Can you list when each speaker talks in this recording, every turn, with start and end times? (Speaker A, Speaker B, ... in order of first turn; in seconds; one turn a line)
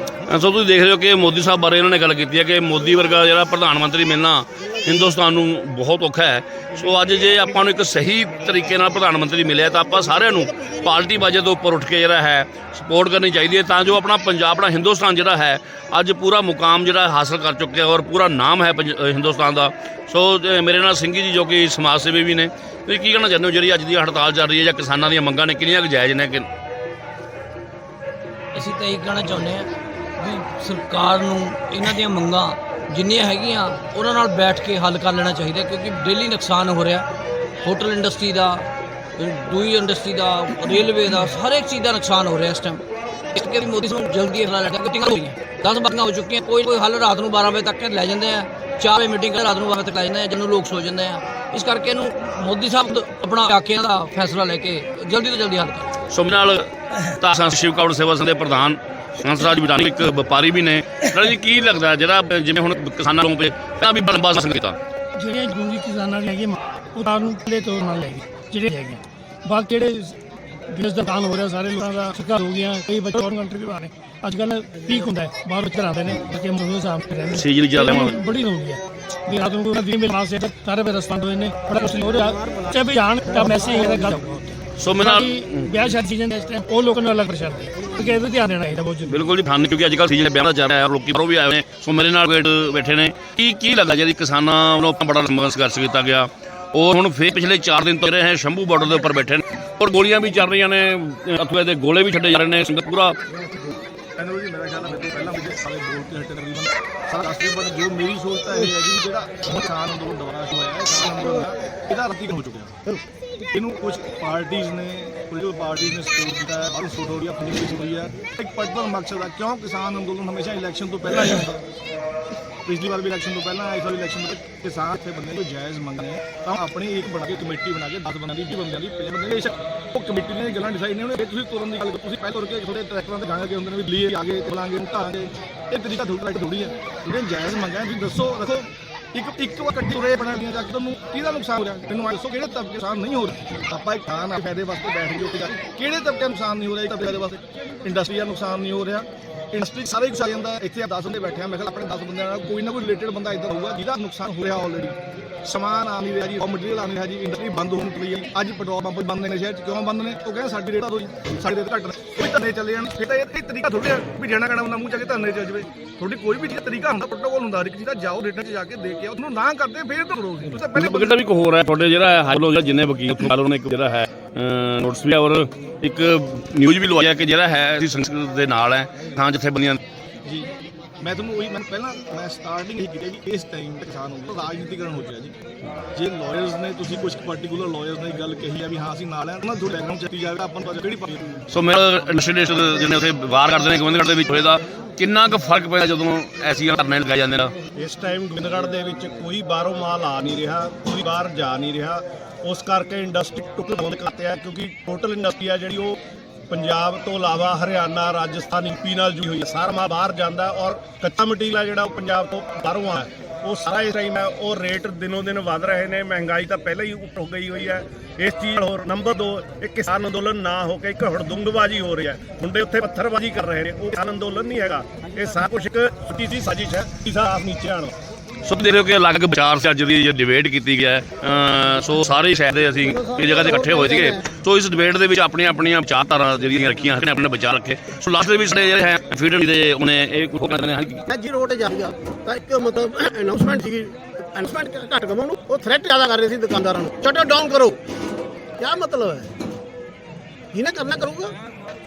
Speaker A: 0.3-26.5
Speaker B: 28.6-37.0
Speaker B: 37.6-38.7
Speaker B: 39.2-42.8
Speaker B: 43.4-56.0
Speaker A: 56.1-64.8
Speaker C: 65.2-70.2
Speaker C: 70.7-89.2
Speaker A: 77.3-78.2
Speaker A: 84.8-86.0
Speaker A: 89.1-103.2
Speaker D: 104.2-112.8
Speaker D: 113.5-121.6
Speaker D: 122.7-171.2
Speaker A: 170.7-179.8
Speaker D: 181.0-185.4
Speaker D: 185.9-191.2
Speaker A: 191.5-197.5
Speaker E: 197.8-206.0
Speaker E: 206.5-227.9
Speaker A: 228.4-241.0
Speaker F: 232.8-234.2
Speaker F: 241.1-247.8
Speaker F: 248.6-249.3
Speaker F: 250.5-251.3